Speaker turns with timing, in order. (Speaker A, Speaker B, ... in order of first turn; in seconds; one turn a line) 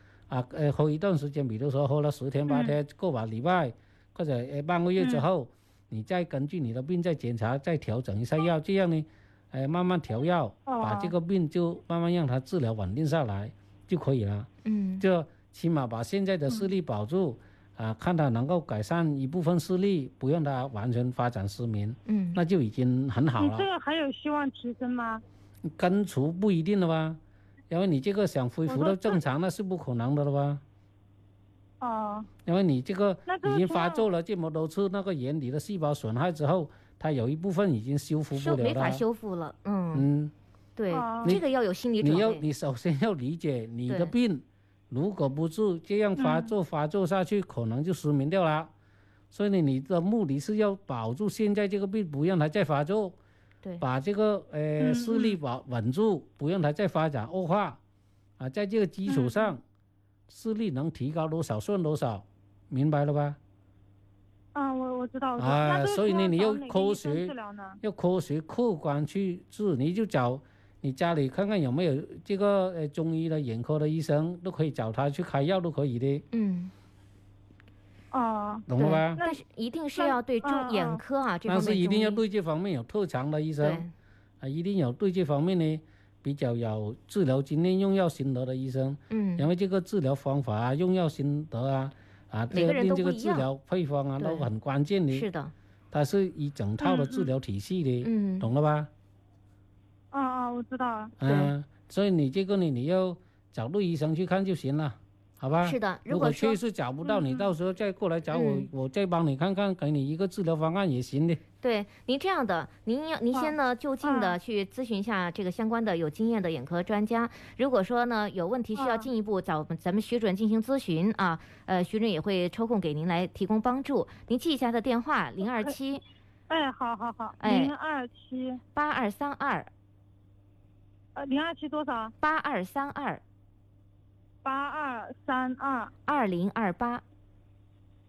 Speaker A: 0.3-14.5
Speaker B: 2.5-2.8
Speaker B: 5.0-5.2
Speaker B: 10.7-11.1
Speaker C: 14.6-15.0
Speaker A: 15.0-23.7
Speaker C: 22.1-22.4
Speaker B: 23.4-25.2
Speaker A: 25.6-27.2
Speaker A: 27.7-30.6
Speaker B: 28.7-29.2
Speaker B: 31.8-32.3
Speaker A: 32.5-39.0
Speaker B: 33.3-34.1
Speaker C: 38.3-40.0
Speaker A: 39.9-40.3
Speaker C: 40.8-42.5
Speaker B: 40.9-41.4
Speaker A: 42.0-48.7
Speaker C: 43.9-44.1
Speaker B: 46.2-46.5
Speaker A: 49.3-53.2
Speaker A: 53.8-57.8
Speaker B: 54.8-55.4
Speaker A: 58.4-59.6
Speaker B: 59.1-59.5
Speaker A: 60.3-63.4
Speaker B: 64.5-67.8
Speaker A: 65.4-76.2
Speaker C: 76.3-76.7
Speaker B: 78.1-79.4
Speaker A: 78.7-79.2
Speaker C: 78.8-82.2
Speaker B: 80.0-81.0
Speaker A: 81.5-83.8
Speaker C: 83.6-83.9
Speaker A: 84.4-95.3
Speaker C: 89.1-89.5
Speaker C: 92.5-93.5
Speaker C: 94.2-94.5
Speaker C: 95.1-95.5
Speaker A: 95.9-98.9
Speaker B: 96.8-97.3
Speaker C: 98.0-98.5
Speaker B: 100.1-101.2
Speaker A: 101.2-111.4
Speaker C: 105.6-106.6
Speaker B: 107.0-107.5
Speaker C: 108.3-108.7
Speaker C: 111.6-126.0
Speaker B: 113.3-114.3
Speaker B: 118.8-119.1
Speaker B: 126.5-128.6
Speaker C: 127.4-127.7
Speaker C: 128.7-129.7
Speaker B: 131.2-132.1
Speaker C: 132.2-133.2
Speaker B: 134.4-135.9
Speaker C: 136.1-137.0